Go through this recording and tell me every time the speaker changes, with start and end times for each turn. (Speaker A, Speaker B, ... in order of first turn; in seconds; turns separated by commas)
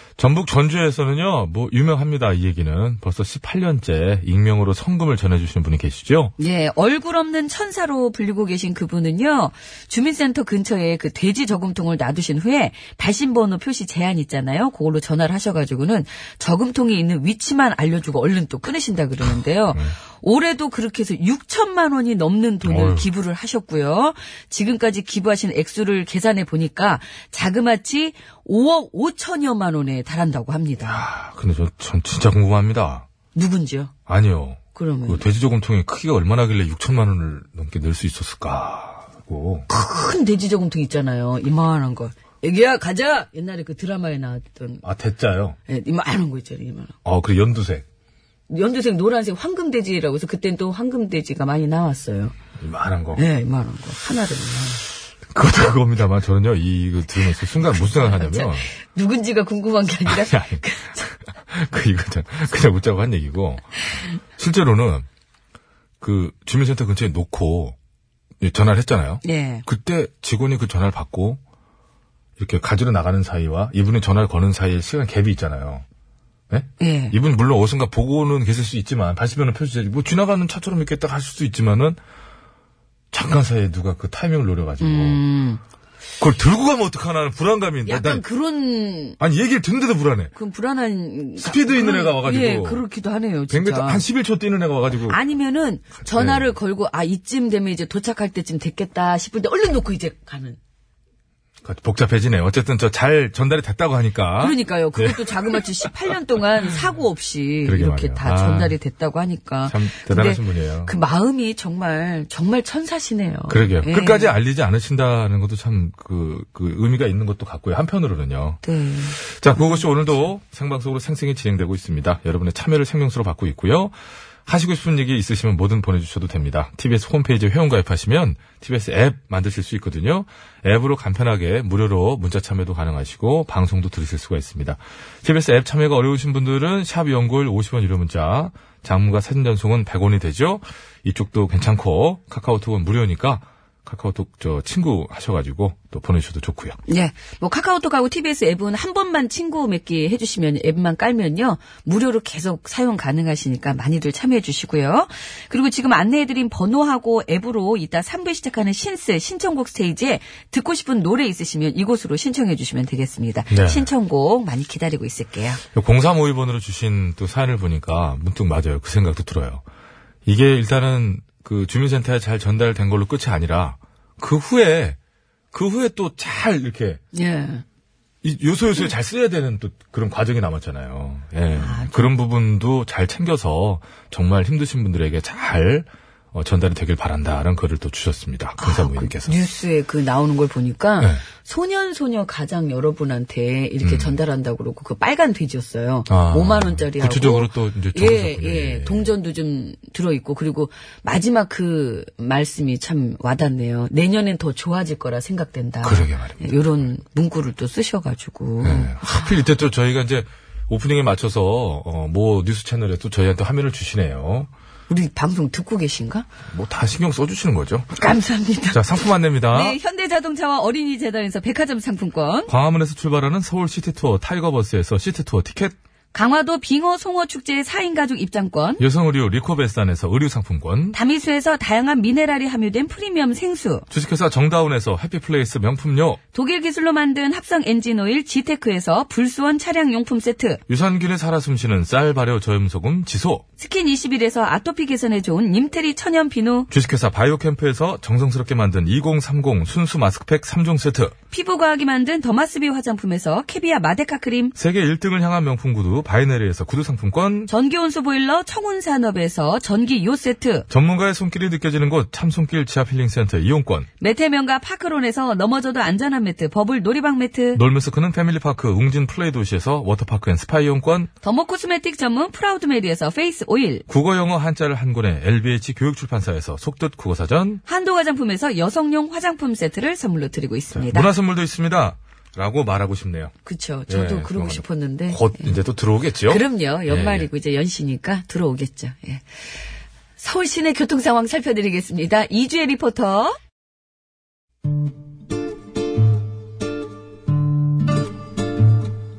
Speaker A: 0.2-6.3, Speaker B: 6.4-31.0, Speaker A: 22.6-23.1, Speaker A: 30.8-33.0, Speaker B: 33.3-33.9, Speaker A: 34.1-39.6, Speaker B: 34.7-35.2, Speaker B: 39.7-44.8, Speaker A: 44.8-45.6, Speaker B: 45.7-46.9, Speaker A: 47.0-47.8, Speaker B: 48.5-52.3, Speaker A: 52.6-53.2, Speaker B: 53.1-54.8, Speaker A: 55.3-58.7, Speaker B: 57.8-61.1, Speaker A: 60.1-60.6, Speaker A: 61.5-65.0, Speaker A: 66.0-67.7, Speaker A: 68.4-71.4, Speaker B: 69.2-69.7, Speaker A: 72.4-75.8, Speaker A: 76.5-82.0, Speaker B: 76.8-77.1, Speaker A: 83.1-85.2, Speaker B: 84.8-85.6, Speaker A: 86.2-88.2, Speaker B: 87.8-89.2, Speaker A: 89.2-90.3, Speaker B: 90.3-94.0, Speaker A: 91.4-92.8, Speaker A: 93.5-95.2, Speaker B: 95.1-100.6, Speaker A: 96.0-96.5, Speaker A: 101.6-106.1, Speaker B: 104.4-114.3, Speaker A: 107.6-108.7, Speaker A: 109.7-110.9, Speaker A: 113.5-118.6, Speaker B: 118.6-119.8, Speaker A: 119.2-123.9, Speaker A: 124.5-146.8, Speaker B: 146.9-165.6, Speaker A: 163.5-163.9, Speaker A: 165.7-169.6, Speaker A: 170.2-175.0, Speaker A: 175.5-177.0, Speaker B: 177.1-177.6, Speaker A: 178.2-189.3, Speaker B: 181.5-182.1, Speaker B: 188.6-209.3, Speaker A: 193.8-194.2, Speaker A: 196.1-199.1, Speaker A: 205.8-206.6, Speaker A: 208.6-214.5, Speaker B: 214.9-216.3, Speaker A: 216.5-217.9, Speaker B: 217.9-218.8, Speaker A: 218.7-219.8, Speaker B: 219.5-222.5, Speaker A: 222.5-225.7, Speaker B: 226.1-228.8, Speaker A: 228.8-230.9, Speaker B: 230.9-233.8, Speaker A: 233.9-236.2, Speaker B: 236.3-240.6, Speaker A: 240.7-243.4, Speaker B: 243.6-246.7, Speaker A: 246.7-251.1, Speaker B: 251.3-254.5, Speaker A: 254.6-257.5, Speaker B: 257.5-260.6, Speaker A: 260.7-263.9, Speaker B: 264.0-267.6, Speaker A: 267.5-271.1, Speaker B: 271.2-273.8, Speaker A: 273.9-277.6, Speaker B: 277.6-281.1, Speaker A: 280.7-283.3, Speaker B: 283.4-285.6, Speaker A: 283.9-287.3, Speaker B: 286.3-289.2, Speaker B: 290.2-293.4